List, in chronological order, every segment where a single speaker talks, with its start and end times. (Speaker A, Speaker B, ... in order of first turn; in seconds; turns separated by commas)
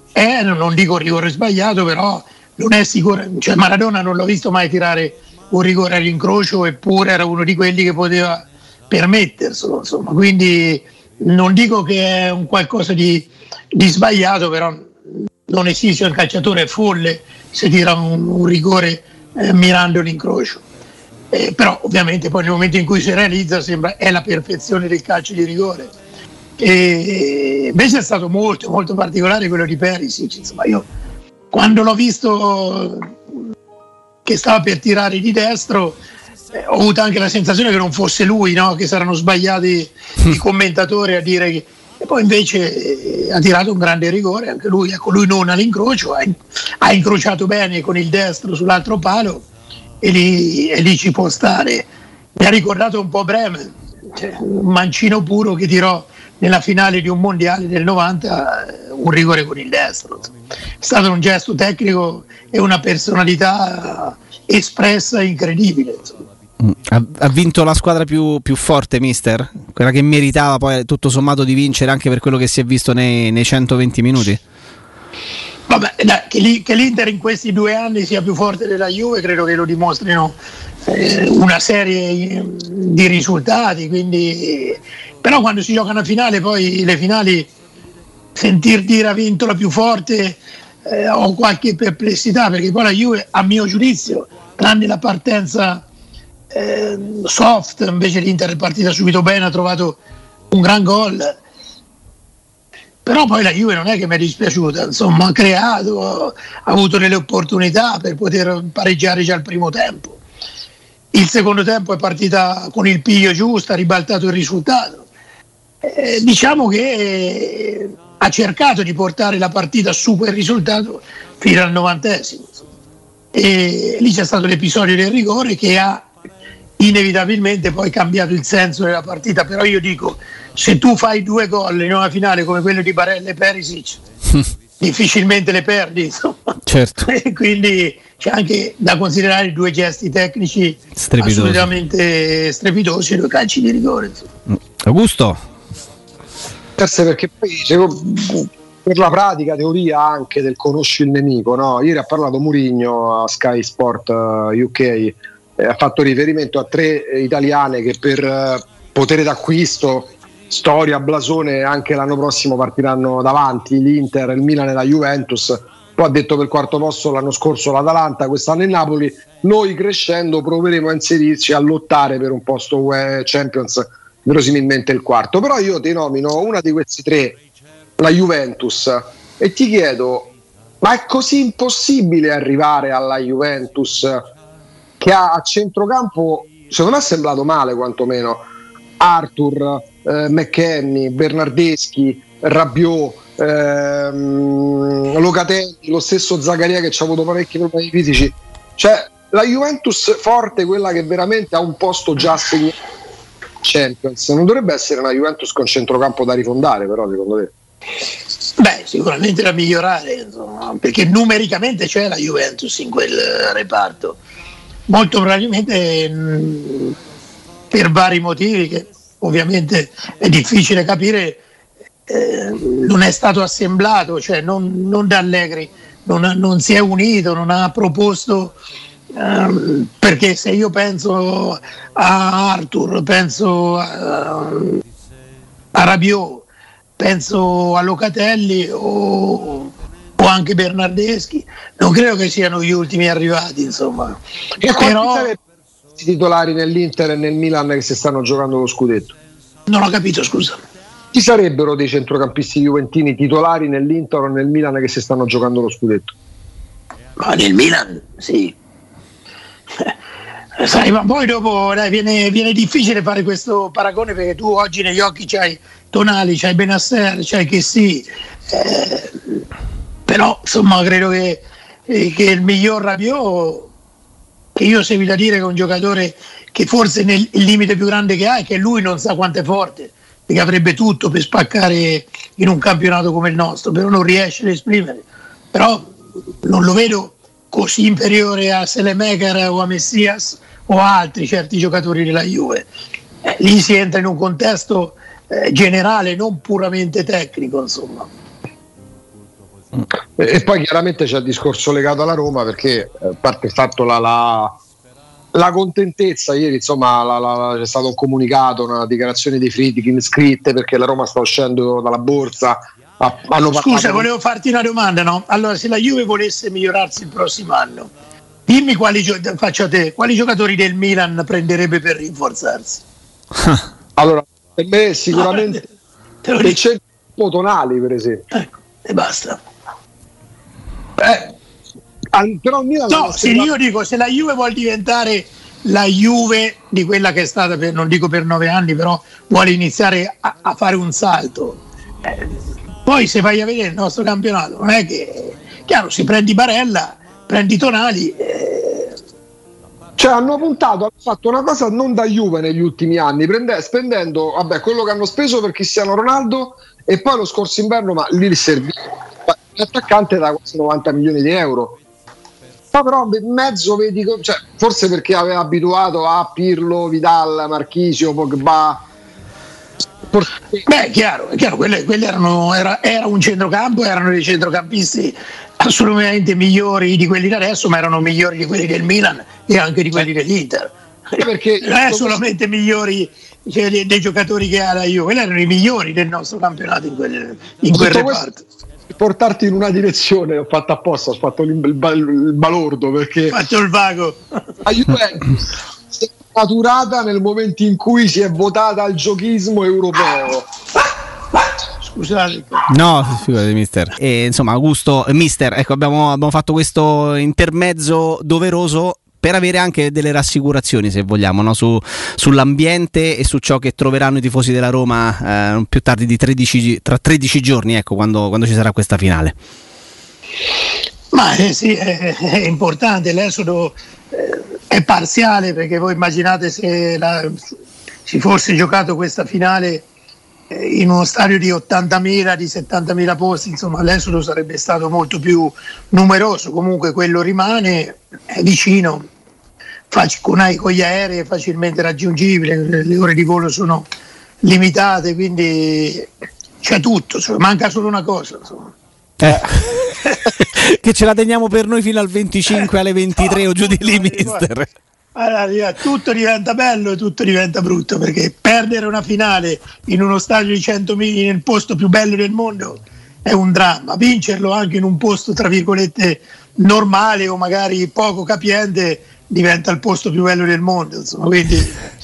Speaker A: 0.1-14.9, Speaker A: 15.5-20.6, Speaker A: 21.3-25.9, Speaker A: 26.6-30.9, Speaker A: 31.5-33.1, Speaker A: 34.2-36.0, Speaker A: 36.5-49.5, Speaker A: 50.0-66.2, Speaker B: 66.6-74.4, Speaker A: 75.7-80.4, Speaker A: 80.9-87.5, Speaker A: 88.3-95.8, Speaker A: 96.5-100.0, Speaker A: 100.5-101.4, Speaker A: 103.1-110.2, Speaker A: 111.1-115.1, Speaker A: 115.8-122.6, Speaker A: 123.3-126.1, Speaker A: 126.8-134.0, Speaker A: 134.8-144.3, Speaker B: 136.7-137.1, Speaker B: 141.0-141.7, Speaker B: 144.5-145.4, Speaker C: 146.8-177.4, Speaker C: 178.0-184.3, Speaker C: 185.0-188.4, Speaker C: 189.0-202.7, Speaker C: 203.6-207.5, Speaker A: 208.6-214.2, Speaker A: 214.9-216.9, Speaker A: 217.7-221.4, Speaker A: 222.1-228.6, Speaker A: 229.1-234.8, Speaker A: 235.7-236.5, Speaker A: 237.0-244.2, Speaker C: 244.6-245.4, Speaker A: 244.7-245.3, Speaker C: 246.0-249.1, Speaker A: 249.7-250.6, Speaker C: 251.1-256.1, Speaker A: 257.2-258.6, Speaker A: 260.6-269.4, Speaker A: 270.1-273.7, Speaker A: 274.6-285.9, Speaker A: 286.4-292.7, Speaker A: 293.2-298.1, Speaker C: 300.2-304.5, Speaker C: 305.3-314.1, Speaker A: 313.5-317.9, Speaker A: 318.5-322.8, Speaker C: 324.0-325.7, Speaker A: 325.1-325.6, Speaker A: 326.2-326.6, Speaker C: 326.4-328.2, Speaker A: 328.3-329.4, Speaker C: 331.0-331.3, Speaker C: 332.1-333.5, Speaker A: 332.9-341.6, Speaker A: 342.9-348.9, Speaker C: 350.0-361.8, Speaker C: 362.7-368.8, Speaker C: 370.1-370.6, Speaker A: 370.7-388.4, Speaker C: 381.2-382.2, Speaker C: 387.7-388.2, Speaker C: 388.9-393.4, Speaker A: 393.3-394.3, Speaker C: 394.6-400.5, Speaker A: 401.8-402.7, Speaker B: 402.7-419.4, Speaker A: 421.1-427.4, Speaker A: 428.1-429.9, Speaker A: 430.5-439.1, Speaker A: 439.9-443.9, Speaker A: 444.4-446.1, Speaker A: 446.6-448.7, Speaker B: 449.2-454.7, Speaker A: 449.9-450.2, Speaker A: 453.2-454.5, Speaker A: 455.1-471.8